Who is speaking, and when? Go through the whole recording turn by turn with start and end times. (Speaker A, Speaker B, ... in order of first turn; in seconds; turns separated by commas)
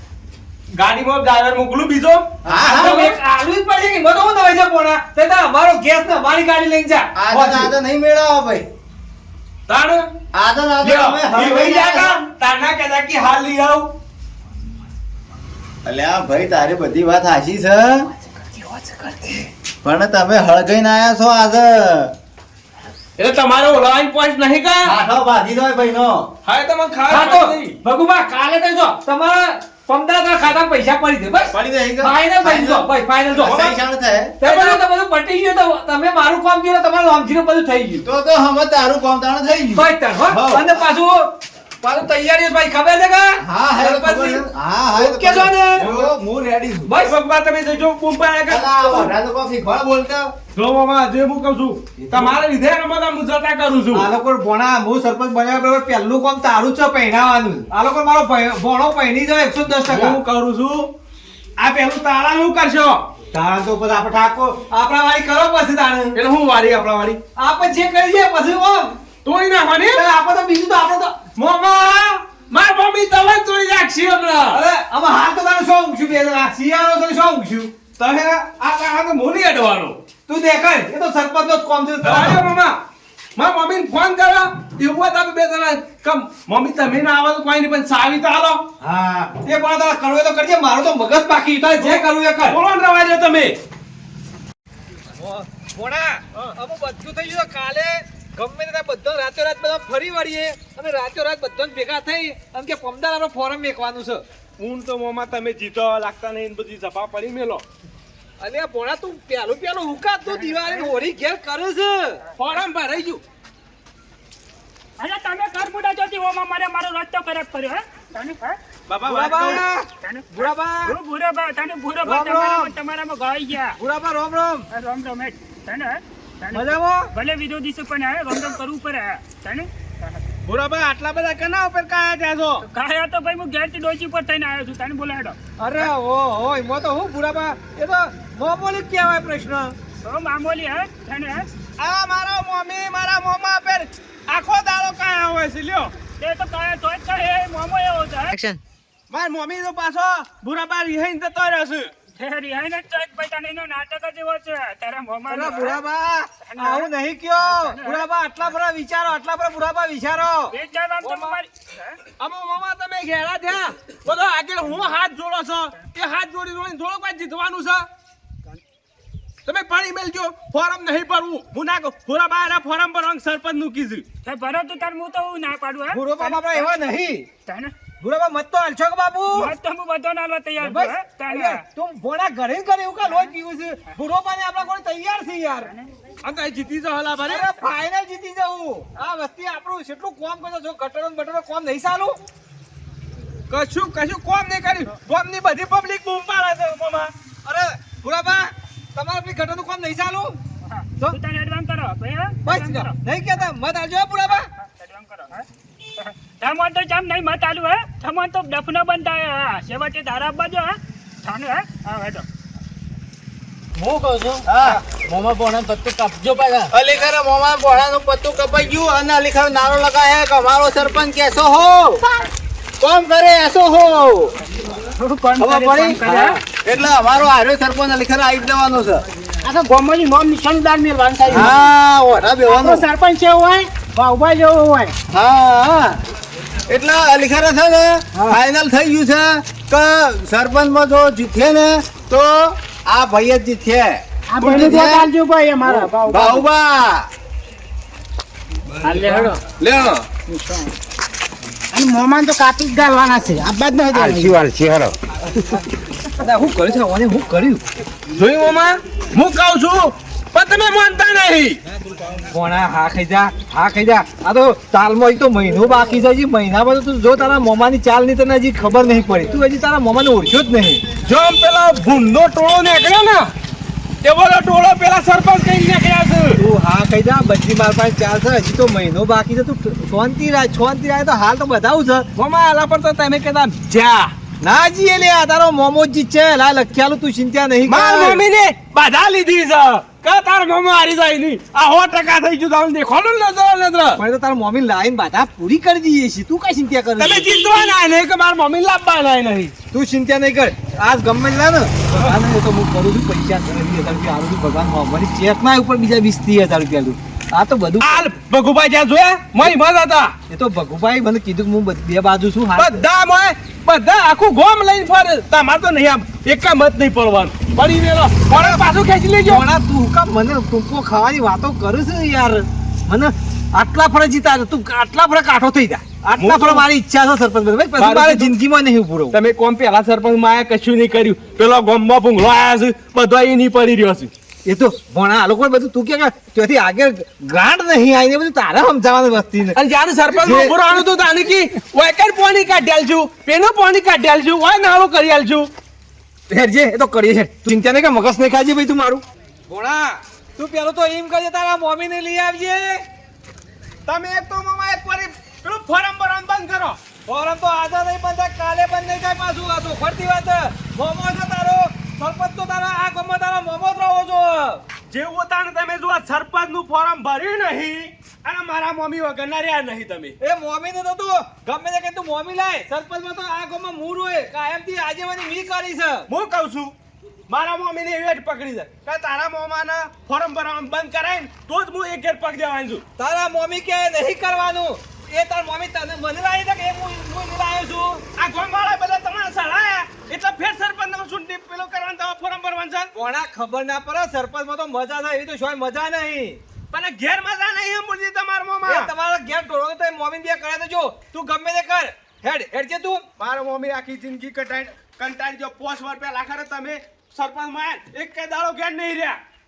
Speaker A: 0.7-2.3, Speaker B: 2.4-3.0, Speaker C: 2.5-7.7, Speaker A: 2.8-3.1, Speaker B: 7.2-8.7, Speaker A: 9.7-10.1, Speaker B: 10.3-12.2, Speaker A: 10.8-13.9, Speaker B: 15.8-18.1, Speaker A: 18.6-19.4, Speaker B: 19.8-22.1, Speaker A: 23.2-24.9, Speaker B: 24.8-26.3, Speaker A: 26.4-27.8, Speaker C: 27.1-33.7, Speaker B: 31.5-34.4, Speaker A: 33.4-33.7, Speaker C: 34.4-38.0, Speaker A: 34.4-34.8, Speaker B: 38.0-40.8, Speaker C: 39.7-44.4, Speaker B: 43.4-46.9, Speaker C: 45.0-45.9, Speaker A: 45.6-46.1, Speaker C: 46.9-47.2, Speaker A: 46.9-49.1, Speaker B: 48.5-50.3, Speaker A: 50.5-54.1, Speaker C: 52.0-52.4, Speaker C: 53.9-60.2, Speaker A: 59.8-60.9, Speaker A: 61.6-63.0, Speaker C: 63.3-66.2, Speaker A: 66.1-67.2, Speaker C: 67.3-69.0, Speaker A: 69.2-70.0, Speaker C: 69.8-71.2, Speaker A: 71.3-74.6, Speaker C: 74.5-77.7, Speaker A: 78.0-80.0, Speaker C: 80.3-82.4, Speaker A: 82.0-82.8, Speaker A: 83.3-88.6, Speaker C: 88.8-92.6, Speaker A: 91.8-93.6, Speaker C: 95.1-104.2, Speaker A: 104.6-107.6, Speaker C: 108.4-112.2, Speaker D: 110.2-110.9, Speaker A: 112.4-113.2, Speaker D: 115.0-118.6, Speaker A: 118.9-119.6, Speaker C: 119.0-121.0, Speaker D: 120.0-123.8, Speaker C: 122.0-122.7, Speaker C: 123.8-124.7, Speaker D: 124.7-130.2, Speaker C: 126.5-127.1, Speaker A: 130.4-132.6, Speaker D: 132.6-135.4, Speaker C: 135.6-139.7, Speaker D: 140.0-141.5, Speaker A: 141.8-145.9, Speaker D: 146.2-148.3, Speaker A: 149.1-151.9, Speaker D: 152.1-155.8, Speaker C: 155.3-160.5, Speaker D: 156.4-158.1, Speaker D: 160.5-162.0, Speaker A: 161.0-161.4, Speaker A: 162.2-167.8, Speaker A: 169.4-174.0, Speaker D: 174.2-176.7, Speaker C: 175.9-177.3, Speaker D: 177.4-177.7, Speaker C: 178.0-179.5, Speaker D: 179.3-181.6, Speaker C: 180.6-185.7, Speaker D: 185.6-185.9, Speaker A: 186.2-187.5, Speaker C: 187.2-192.2, Speaker A: 193.5-197.1, Speaker C: 197.4-200.4, Speaker D: 200.6-202.9, Speaker C: 202.4-204.5, Speaker D: 204.5-212.3, Speaker E: 213.8-216.7, Speaker B: 214.4-214.9, Speaker B: 216.7-222.0, Speaker B: 222.8-224.3, Speaker D: 225.0-226.4, Speaker B: 225.4-229.1, Speaker B: 231.2-232.9, Speaker B: 235.1-236.0, Speaker B: 236.7-247.1, Speaker E: 248.8-249.4, Speaker A: 248.9-250.1, Speaker B: 254.1-254.9, Speaker C: 256.1-257.6, Speaker A: 258.1-261.6, Speaker C: 262.2-270.8, Speaker A: 271.0-273.3, Speaker A: 274.0-276.4, Speaker C: 276.4-282.1, Speaker A: 282.1-284.1, Speaker C: 284.4-288.2, Speaker A: 287.6-294.0, Speaker C: 293.9-297.3, Speaker A: 297.0-299.5, Speaker C: 299.7-308.1, Speaker A: 307.8-310.1, Speaker C: 310.3-312.8, Speaker A: 312.6-319.4, Speaker C: 318.3-318.6, Speaker C: 319.2-329.2, Speaker A: 326.2-326.6, Speaker A: 327.8-328.3, Speaker A: 329.1-334.1, Speaker C: 334.4-339.6, Speaker A: 339.5-345.5, Speaker C: 340.1-340.7, Speaker C: 346.3-352.8, Speaker A: 353.9-356.8, Speaker C: 357.1-364.6, Speaker A: 364.9-370.1, Speaker C: 370.2-376.1, Speaker A: 376.1-376.7, Speaker A: 377.3-382.8, Speaker C: 383.0-388.0, Speaker A: 388.1-392.9, Speaker C: 392.9-396.4, Speaker A: 396.7-398.9, Speaker C: 398.6-403.1, Speaker A: 403.2-409.2